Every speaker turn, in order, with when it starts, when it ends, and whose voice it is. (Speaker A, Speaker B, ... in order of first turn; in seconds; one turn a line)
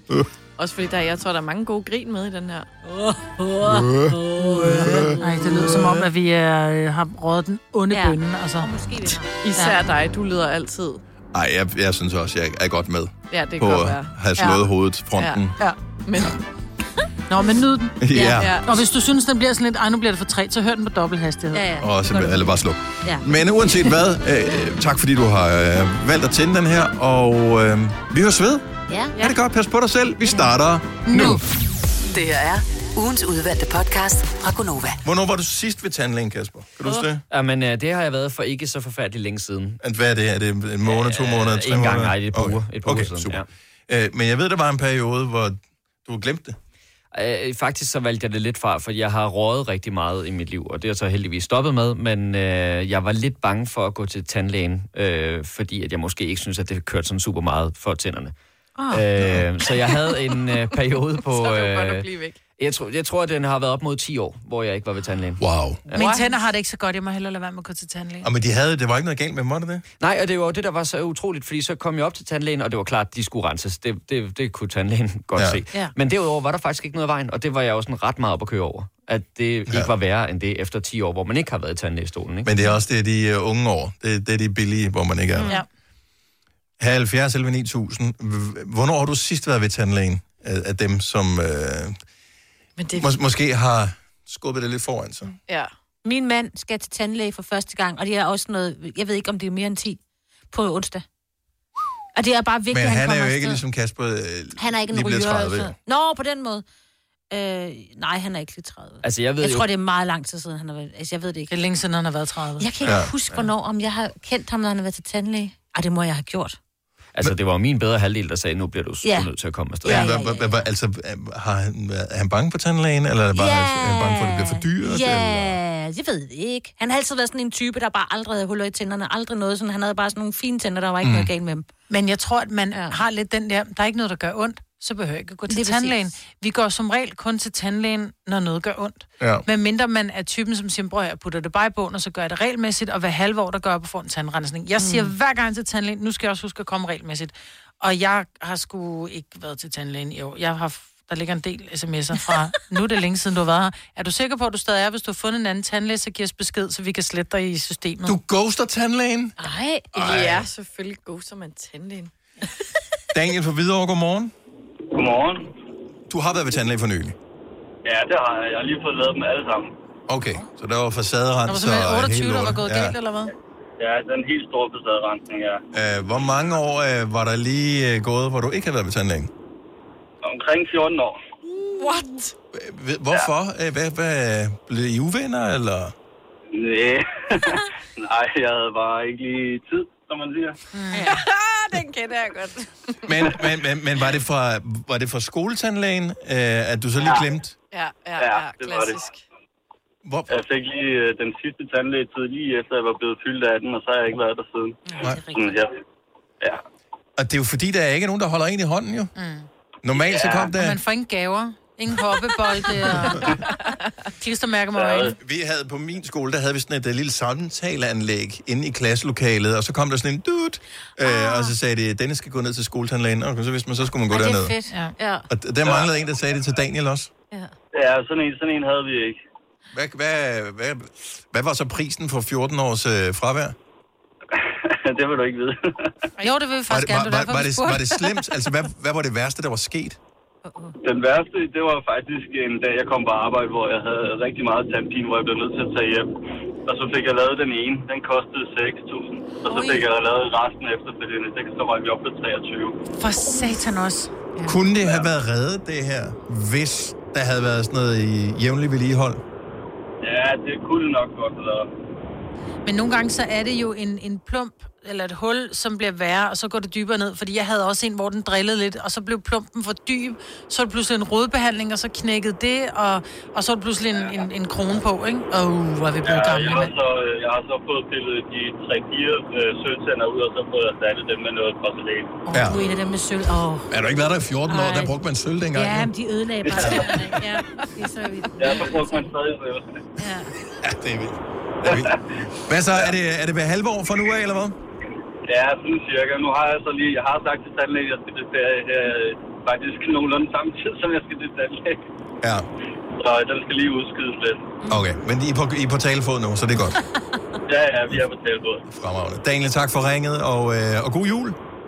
Speaker A: 0.6-2.7
Speaker B: 2.8-6.0
Speaker C: 4.6-8.7
Speaker B: 7.9-9.3
Speaker A: 9.4-11.0
Speaker D: 11.3-15.5
Speaker A: 13.3-14.6
Speaker A: 15.2-15.4
Speaker A: 16.1-16.4
Speaker C: 17.3-21.7
Speaker D: 18.0-18.6
Speaker B: 18.1-18.5
Speaker A: 18.4-18.7
Speaker B: 21.5-23.3
Speaker D: 21.8-28.6
Speaker B: 28.9-29.1
Speaker D: 29.2-31.4
Speaker C: 31.0-31.4
Speaker E: 32.1-35.0
Speaker D: 35.0-37.2
Speaker F: 37.3-39.8
Speaker D: 39.8-46.6
Speaker F: 40.8-43.5
Speaker F: 47.1-58.3
Speaker F: 58.9-66.1
Speaker A: 61.2-62.4
Speaker D: 65.4-65.8
Speaker A: 66.0-66.2
Speaker C: 66.0-68.3
Speaker D: 68.2-69.8
Speaker F: 70.0-82.5
Speaker D: 75.3-75.6
Speaker D: 79.7-79.9
Speaker D: 82.4-85.5
Speaker D: 86.8-92.0
Speaker A: 92.8-93.1
Speaker D: 93.0-95.3
Speaker A: 95.5-95.7
Speaker B: 96.0-100.0
Speaker B: 100.5-101.0
Speaker B: 102.1-103.6
Speaker D: 102.7-105.7
Speaker B: 104.5-106.6
Speaker B: 107.3-111.5
Speaker F: 109.0-109.7
Speaker C: 111.5-112.7
Speaker B: 112.6-116.6
Speaker D: 112.8-113.5
Speaker F: 117.1-120.1
Speaker B: 119.0-119.3
Speaker B: 119.8-120.7
Speaker D: 119.8-125.6
Speaker B: 123.3-131.7
Speaker D: 131.0-131.3
Speaker C: 131.9-158.2
Speaker B: 132.7-133.0
Speaker B: 135.5-136.0
Speaker D: 139.2-139.4
Speaker B: 144.8-145.1
Speaker D: 158.1-159.4
Speaker B: 159.4-160.2
Speaker A: 159.9-162.1
Speaker D: 159.9-160.5
Speaker D: 163.1-164.3
Speaker G: 164.9-165.5
Speaker D: 166.1-167.2
Speaker G: 167.8-169.7
Speaker D: 170.1-172.9
Speaker C: 171.5-173.3
Speaker G: 173.8-175.6
Speaker D: 175.7-179.3
Speaker G: 180.2-181.2
Speaker A: 181.8-182.3
Speaker D: 182.5-185.9
Speaker G: 186.5-190.6
Speaker C: 190.7-191.2
Speaker A: 191.0-192.9
Speaker D: 193.1-197.5
Speaker G: 197.0-197.2
Speaker A: 197.7-199.2
Speaker G: 198.2-199.0
Speaker D: 200.0-200.3
Speaker G: 200.3-205.8
Speaker B: 204.9-205.6
Speaker D: 207.2-209.1
Speaker C: 209.2-209.5
Speaker D: 209.8-210.8
Speaker G: 209.9-210.5
Speaker C: 210.5-213.4
Speaker C: 214.2-215.1
Speaker G: 214.8-215.1
Speaker D: 215.2-224.6
Speaker B: 221.0-221.5
Speaker B: 224.1-225.3
Speaker C: 224.7-224.9
Speaker D: 225.3-227.1
Speaker G: 227.7-229.2
Speaker D: 229.7-233.6
Speaker G: 234.3-235.9
Speaker C: 236.2-238.2
Speaker D: 236.7-240.0
Speaker B: 240.5-240.7
Speaker G: 240.8-246.1
Speaker G: 246.7-252.8
Speaker B: 249.5-249.8
Speaker C: 252.9-254.4
Speaker D: 254.4-259.2
Speaker G: 254.8-255.1
Speaker G: 260.0-261.7
Speaker C: 262.6-276.7
Speaker G: 276.1-282.2
Speaker B: 282.3-283.7
Speaker D: 282.3-282.6
Speaker D: 283.7-285.9
Speaker B: 284.5-284.9
Speaker B: 285.5-289.1
Speaker G: 286.4-287.2
Speaker D: 286.6-287.1
Speaker G: 288.4-289.8
Speaker B: 290.0-290.3
Speaker D: 290.6-294.6
Speaker G: 291.6-292.0
Speaker G: 295.3-301.8
Speaker D: 302.2-302.5
Speaker G: 303.0-304.5
Speaker D: 304.7-306.8
Speaker G: 307.5-308.6
Speaker D: 308.7-311.4